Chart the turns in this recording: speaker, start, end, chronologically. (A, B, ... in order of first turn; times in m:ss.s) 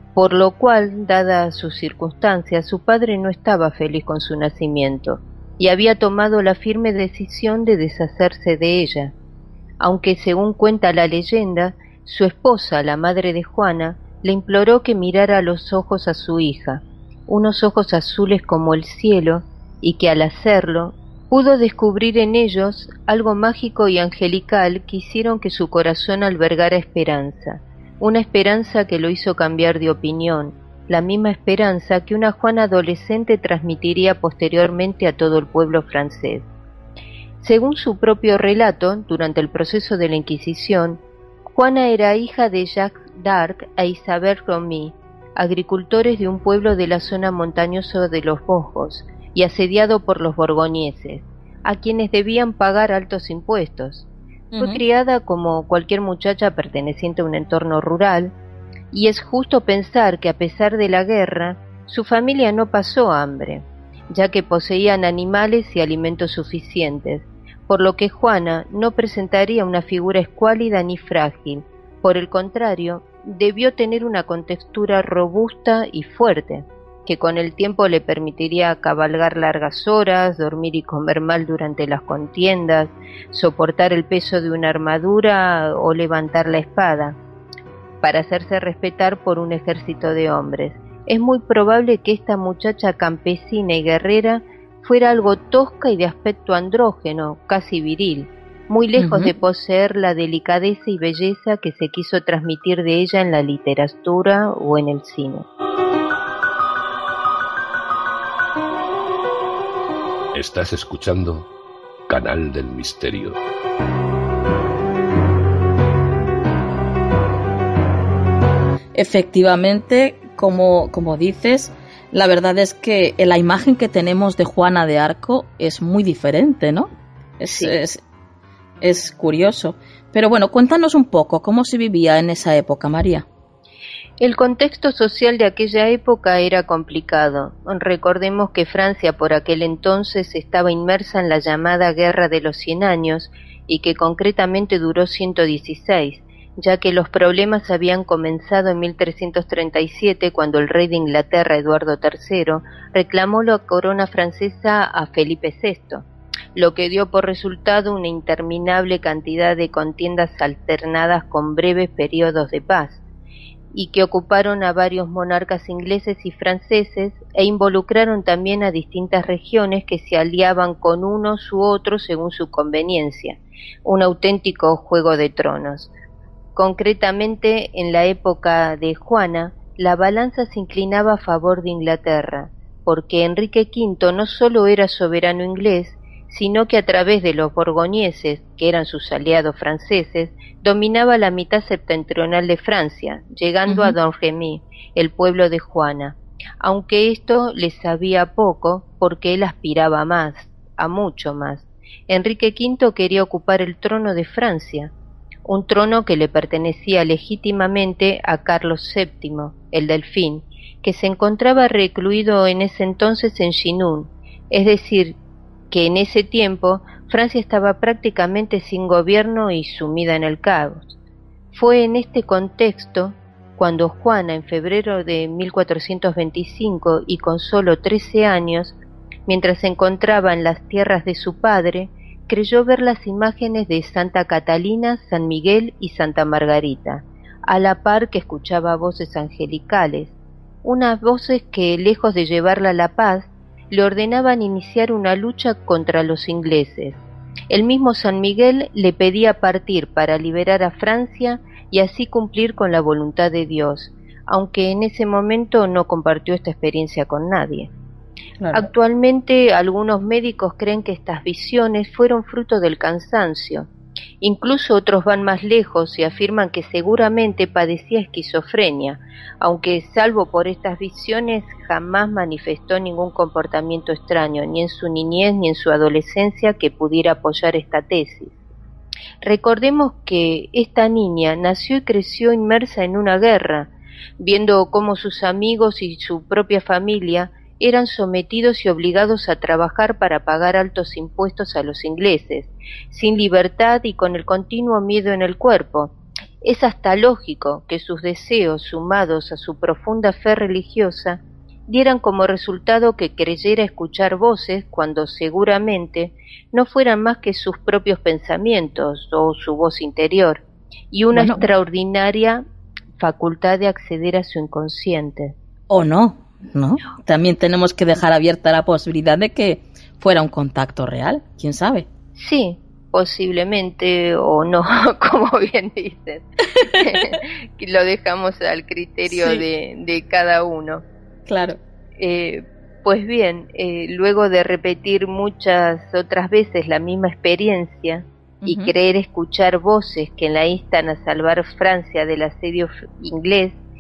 0:00.2-0:09.1 A
0:09.8-0:36.5 A
0:37.4-0:54.1 A
0:54.5-0:54.8 B
0:54.6-0:58.3 A
0:58.9-1:27.2 A
1:28.0-1:45.5 A
1:39.0-1:39.3 B
1:50.3-1:51.5 C
1:52.1-1:53.4 C
1:58.9-2:08.0 B
2:07.5-2:07.7 A
2:08.8-2:13.2 B
2:14.2-2:36.0 A
2:36.6-2:43.0 A
2:43.7-2:55.9 A
2:56.6-3:24.9 A
3:13.7-3:14.0 B
3:25.5-3:35.2 A
3:35.7-3:40.9 A
3:41.5-3:48.8 A
3:49.3-4:07.0 A
4:07.5-4:17.7 A
4:18.4-4:18.7 B
4:18.5-4:23.7 A
4:24.2-4:38.4 A
4:39.2-5:12.4 A
5:11.1-5:11.4 B
5:13.0-5:15.4 A
5:15.7-5:21.9 B
5:22.2-5:30.8 A
5:26.6-5:27.2 B
5:29.1-5:29.4 B
5:31.3-5:31.6 B
5:32.0-5:43.6 A
5:38.4-5:38.7 B